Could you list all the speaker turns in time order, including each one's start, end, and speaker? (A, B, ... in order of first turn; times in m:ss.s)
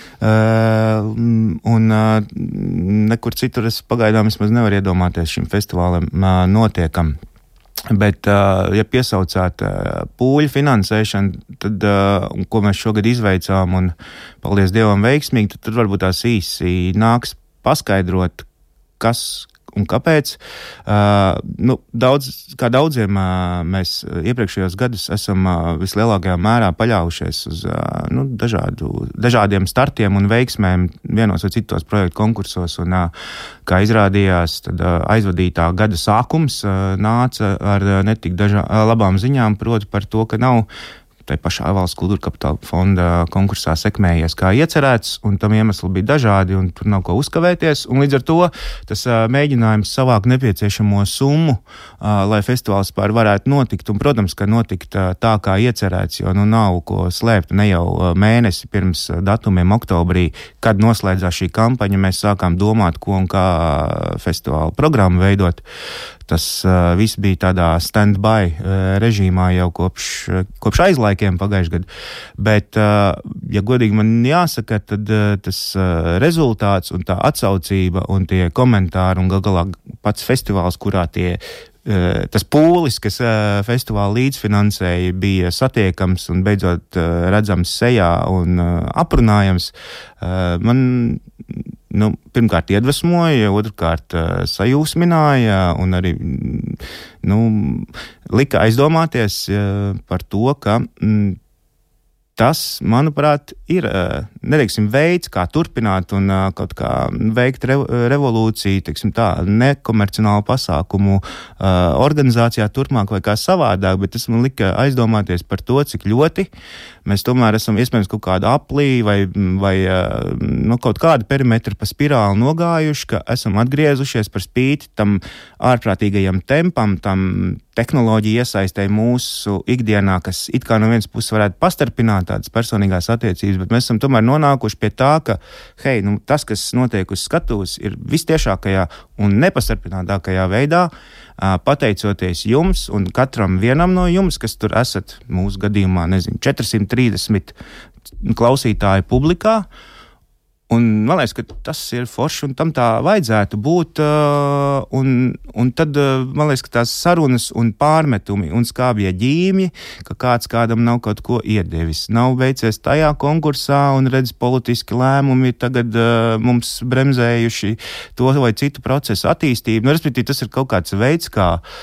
0:00.2-0:07.2 A
0:07.9-0:18.4 A
0:19.0-0:33.1 A
0:33.6-0:40.7 A
0:41.2-1:05.6 A
1:06.3-1:41.4 A
1:42.4-1:56.5 A
1:57.0-2:27.6 A
2:28.2-2:29.7 A
2:30.7-2:51.6 A